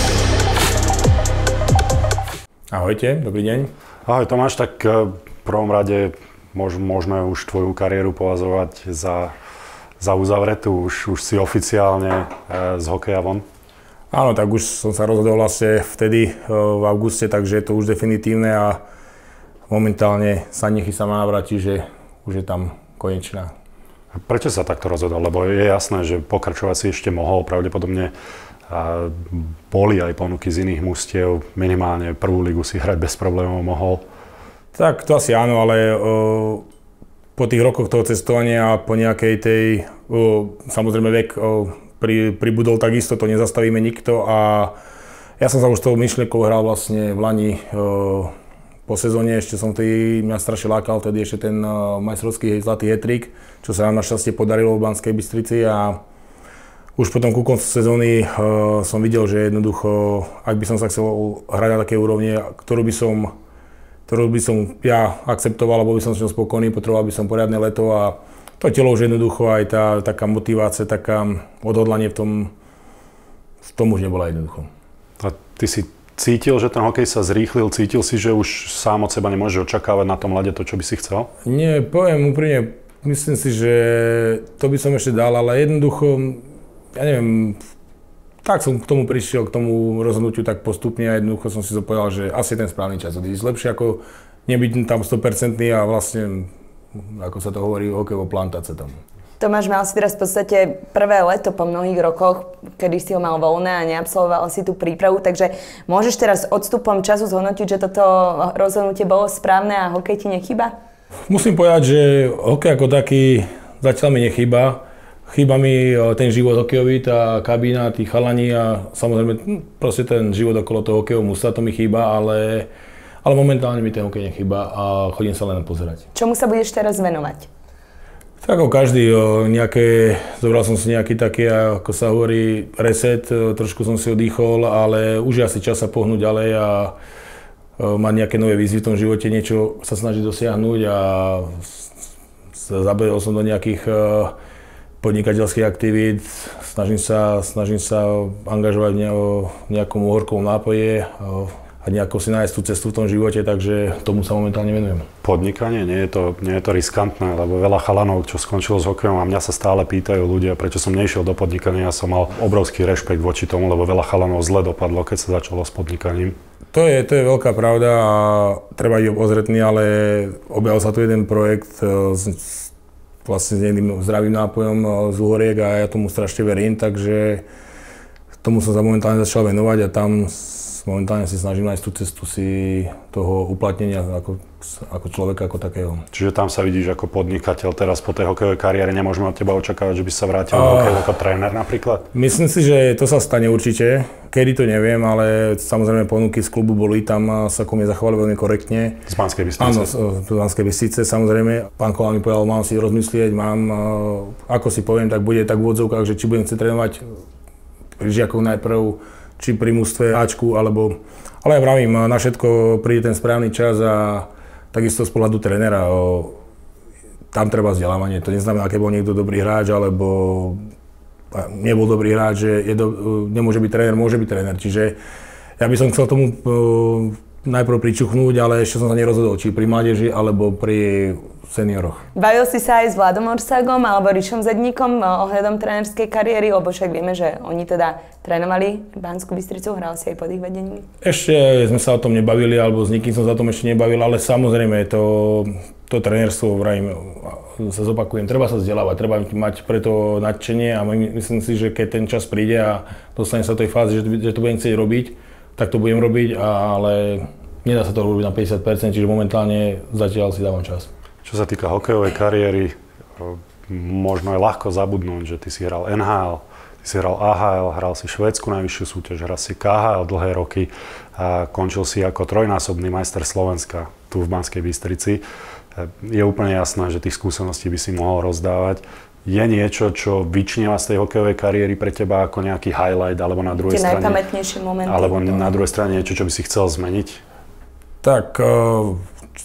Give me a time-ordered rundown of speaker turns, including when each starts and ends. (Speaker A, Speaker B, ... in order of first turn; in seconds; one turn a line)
Speaker A: 2.7-3.7
Speaker B: 4.1-9.3
Speaker B: 10.0-13.4
Speaker A: 14.1-18.8
Speaker A: 19.7-23.5
Speaker B: 24.3-28.1
Speaker B: 28.7-34.0
Speaker A: 34.8-36.7
Speaker A: 37.4-44.7
Speaker A: 45.4-48.3
Speaker A: 48.9-56.0
Speaker A: 57.0-63.3
Speaker A: 64.1-72.5
Speaker A: 73.7-74.7
Speaker B: 75.2-81.3
Speaker A: 81.5-86.4
Speaker A: 87.0-87.6
Speaker A: 88.4-99.0
Speaker C: 99.4-110.7
Speaker A: 111.3-122.7
Speaker A: 123.2-126.0
Speaker C: 126.1-127.5
Speaker A: 128.4-136.9
Speaker A: 137.8-141.9
Speaker A: 142.6-144.3
Speaker A: 145.0-155.1
Speaker B: 155.2-166.4
Speaker A: 166.7-172.7
Speaker A: 173.2-177.4
Speaker A: 178.4-186.0
Speaker B: 186.1-192.1
Speaker A: 190.5-191.1
Speaker A: 192.1-199.1
Speaker B: 199.1-199.9
Speaker A: 199.6-207.0
Speaker A: 208.0-216.4
Speaker A: 217.3-220.6
Speaker A: 221.3-225.0
Speaker A: 225.6-232.0
Speaker C: 232.2-240.9
Speaker A: 241.0-260.9
Speaker B: 261.2-275.2
Speaker B: 275.8-284.2
Speaker C: 283.7-285.4
Speaker B: 284.9-287.2
Speaker A: 288.0-289.0